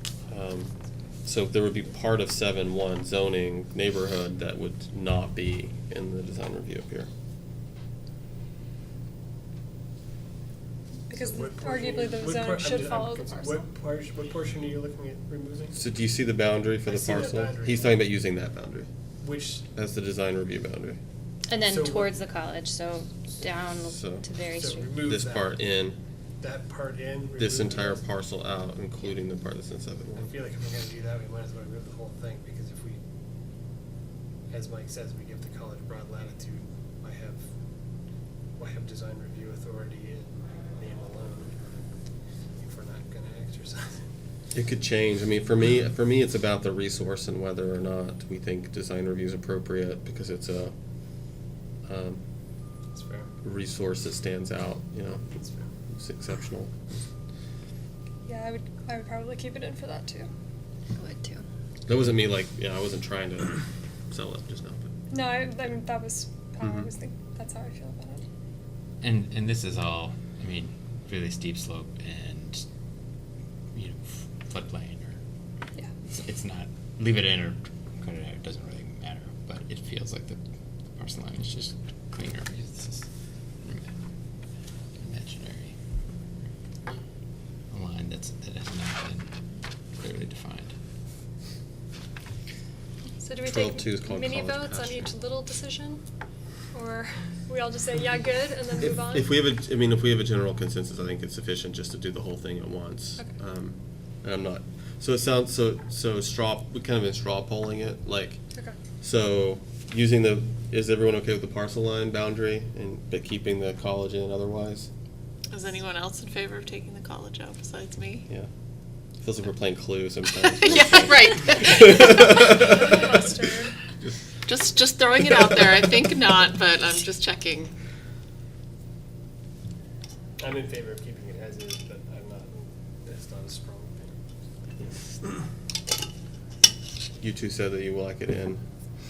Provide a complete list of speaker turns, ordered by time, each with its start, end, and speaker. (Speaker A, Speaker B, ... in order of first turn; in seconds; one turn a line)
Speaker A: 0.3-0.7
Speaker A: 1.2-7.1
Speaker B: 11.1-13.7
Speaker C: 11.2-15.8
Speaker A: 15.8-18.9
Speaker C: 16.8-18.1
Speaker C: 19.2-19.7
Speaker A: 19.7-21.0
Speaker D: 21.5-24.9
Speaker C: 21.6-22.1
Speaker A: 23.9-24.2
Speaker C: 24.6-25.6
Speaker A: 25.0-26.0
Speaker C: 26.4-28.1
Speaker A: 27.4-30.3
Speaker C: 30.2-33.0
Speaker C: 34.5-37.5
Speaker C: 38.5-41.5
Speaker C: 42.6-44.0
Speaker A: 44.5-50.7
Speaker A: 51.9-52.2
Speaker C: 52.9-53.3
Speaker A: 53.4-55.3
Speaker C: 55.3-55.7
Speaker A: 55.9-56.7
Speaker B: 58.3-60.3
Speaker D: 61.0-61.5
Speaker A: 61.9-63.5
Speaker A: 64.1-64.9
Speaker B: 65.1-68.2
Speaker A: 66.6-66.9
Speaker E: 69.0-72.6
Speaker E: 73.7-75.2
Speaker E: 76.1-80.4
Speaker E: 81.0-83.1
Speaker E: 83.6-83.9
Speaker E: 85.0-85.8
Speaker E: 87.7-89.3
Speaker E: 90.0-90.8
Speaker B: 93.2-96.0
Speaker A: 93.5-95.1
Speaker B: 96.7-99.3
Speaker A: 98.8-108.4
Speaker A: 109.0-114.9
Speaker F: 115.5-118.3
Speaker A: 119.2-123.2
Speaker F: 120.5-122.9
Speaker B: 122.7-123.7
Speaker F: 124.5-127.7
Speaker C: 130.4-134.2
Speaker A: 137.2-138.6